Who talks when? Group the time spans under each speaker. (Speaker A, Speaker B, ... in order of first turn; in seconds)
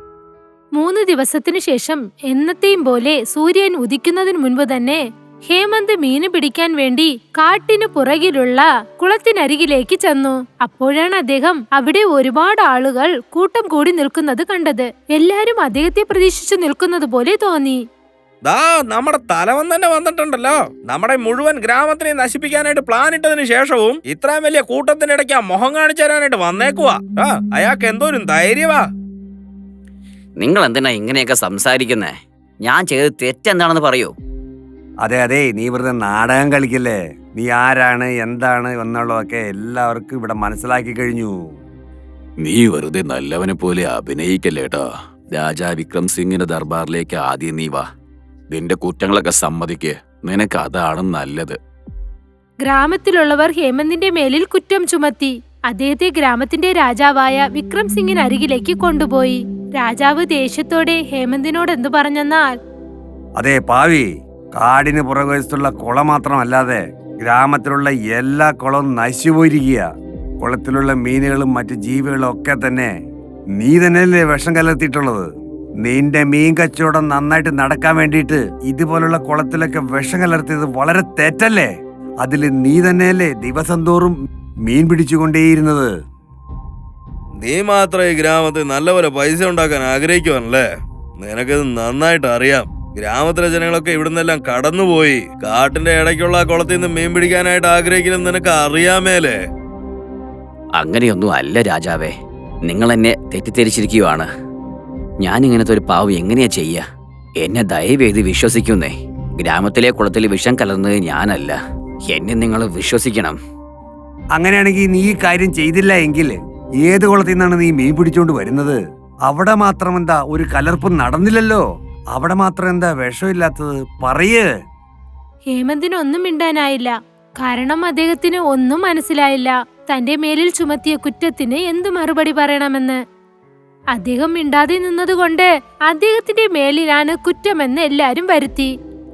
Speaker A: 0.8-17.8, 52.6-62.5, 125.5-133.0, 133.9-138.7
Speaker B: 18.4-28.9, 87.4-90.7, 91.2-99.3
Speaker C: 30.4-34.1, 100.8-102.2, 102.7-104.3, 105.2-106.8, 107.4-111.6, 112.1-113.4
Speaker D: 35.0-41.4, 63.4-64.1, 64.6-69.8, 70.4-72.9, 73.6-75.3, 75.8-81.7, 82.2-84.1, 84.7-85.9, 114.4-118.8, 119.3-121.6, 122.2-124.5
Speaker E: 42.4-47.9, 48.5-51.6